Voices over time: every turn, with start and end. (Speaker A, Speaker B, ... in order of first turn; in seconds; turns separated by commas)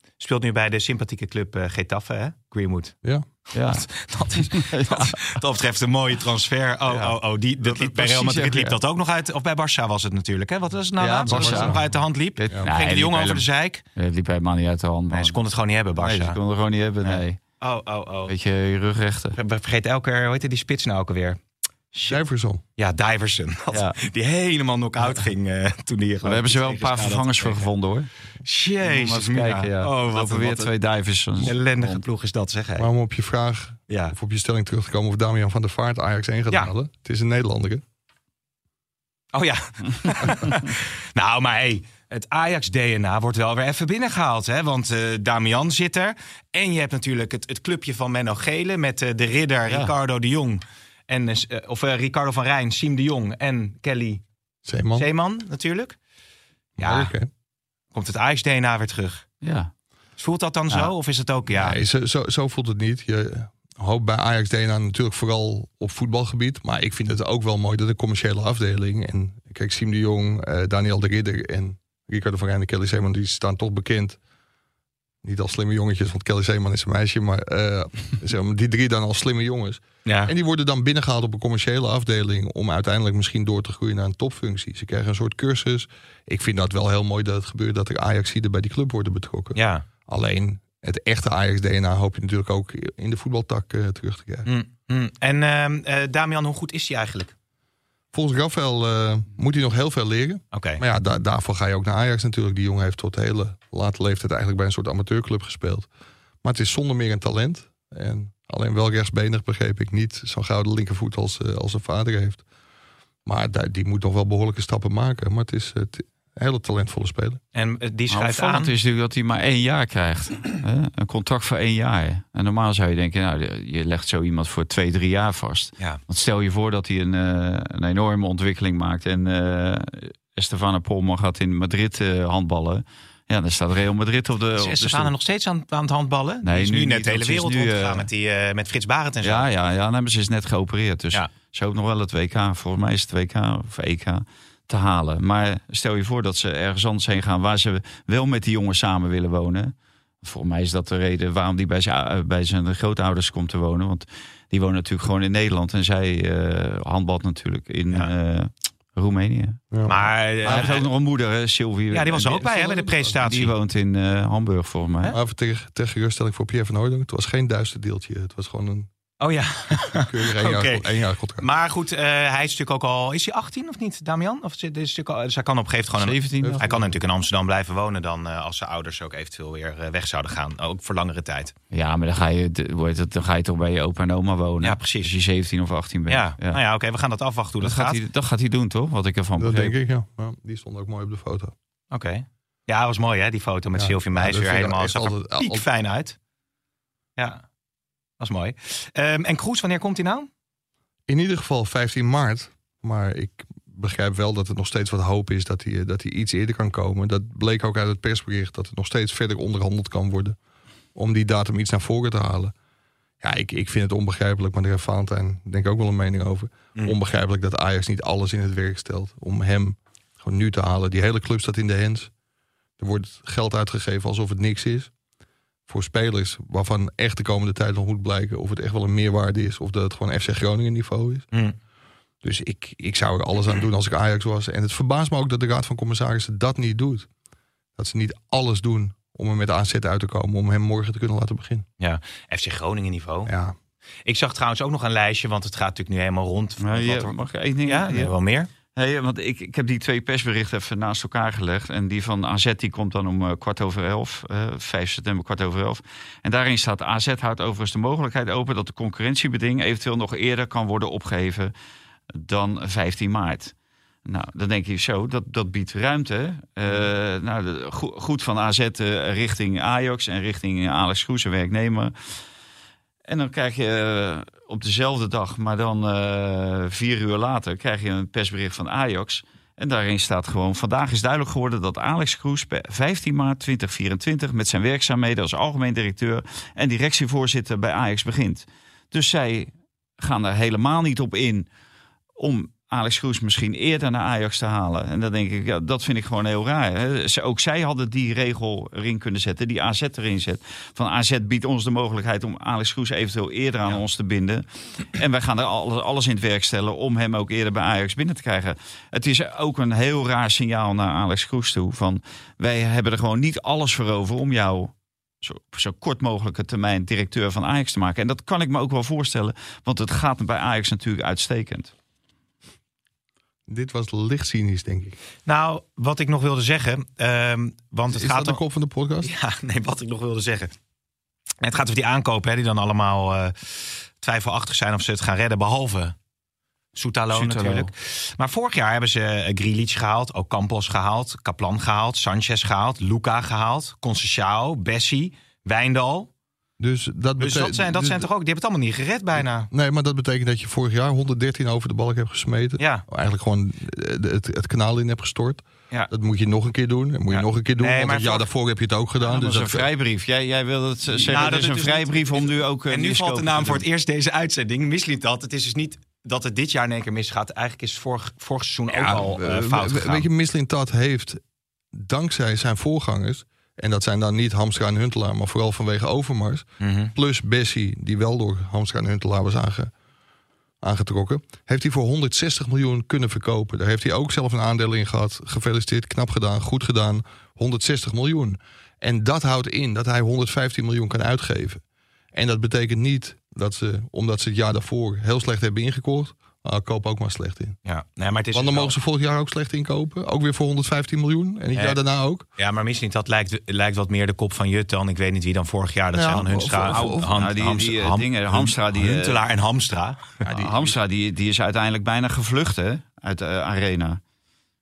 Speaker A: 0.2-3.0, Speaker A: 3.5-13.8, Speaker B: 3.5-5.3, Speaker B: 6.9-8.8, Speaker B: 11.0-11.8, Speaker C: 11.3-11.8, Speaker B: 12.4-15.4, Speaker A: 15.1-16.4, Speaker B: 16.0-17.4, Speaker A: 17.0-18.3, Speaker B: 18.3-19.4, Speaker A: 19.4-21.4, Speaker A: 21.9-22.2, Speaker C: 22.1-22.6, Speaker A: 22.8-27.7, Speaker B: 26.2-28.1, Speaker A: 28.4-30.7, Speaker B: 28.8-32.0, Speaker A: 31.4-32.9, Speaker C: 32.8-37.8, Speaker A: 33.9-34.2, Speaker A: 39.3-54.2, Speaker C: 54.7-55.1, Speaker A: 55.0-56.0, Speaker C: 56.8-57.3, Speaker A: 56.8-57.1, Speaker A: 57.9-59.3, Speaker B: 59.4-59.7, Speaker A: 60.2-61.8, Speaker C: 61.5-74.2, Speaker C: 75.2-94.5, Speaker A: 80.0-80.3, Speaker A: 89.5-89.8, Speaker A: 94.5-97.3, Speaker C: 98.1-105.9, Speaker A: 100.5-100.8, Speaker C: 106.4-112.4, Speaker C: 113.3-117.4, Speaker A: 117.5-118.7, Speaker B: 118.1-135.1, Speaker A: 134.6-139.5, Speaker B: 136.4-138.1, Speaker B: 139.2-159.6, Speaker C: 159.7-160.7, Speaker A: 159.9-160.9, Speaker B: 160.4-165.2, Speaker A: 161.9-163.5, Speaker C: 165.1-168.9, Speaker A: 169.2-181.5, Speaker C: 169.9-171.5, Speaker B: 176.0-176.7, Speaker C: 176.4-176.9, Speaker B: 181.7-186.6, Speaker A: 184.6-185.1, Speaker A: 186.1-188.0, Speaker B: 187.6-189.8, Speaker C: 189.4-191.5, Speaker A: 191.9-196.2, Speaker C: 193.8-195.7, Speaker A: 197.2-197.4, Speaker A: 198.2-200.3, Speaker C: 201.1-210.4, Speaker C: 210.9-212.5, Speaker C: 213.2-222.1, Speaker C: 222.8-224.9, Speaker C: 225.7-231.3, Speaker C: 232.2-237.1, Speaker C: 237.8-241.7, Speaker A: 241.8-243.3, Speaker C: 243.3-243.6, Speaker A: 244.1-248.5, Speaker B: 246.6-248.1, Speaker B: 248.7-261.5, Speaker B: 262.1-263.5, Speaker B: 264.1-271.9, Speaker B: 273.1-291.5, Speaker B: 292.2-321.7, Speaker C: 323.5-325.0, Speaker A: 325.3-328.4, Speaker C: 327.9-329.1, Speaker A: 329.0-330.5, Speaker A: 331.4-336.0, Speaker A: 336.8-346.1, Speaker B: 337.1-337.7, Speaker C: 346.6-348.1, Speaker A: 347.2-349.5, Speaker C: 349.5-359.7, Speaker A: 352.6-352.9, Speaker A: 357.1-358.3, Speaker B: 359.0-363.6, Speaker A: 361.1-370.1, Speaker C: 368.7-371.2, Speaker C: 371.7-379.7, Speaker A: 376.6-376.9, Speaker C: 380.6-391.6, Speaker C: 392.1-397.6, Speaker A: 397.6-398.8, Speaker C: 398.3-402.3, Speaker A: 401.6-401.8, Speaker A: 402.4-410.2, Speaker C: 405.9-407.1, Speaker B: 406.6-409.2, Speaker C: 410.3-410.8, Speaker B: 410.3-414.0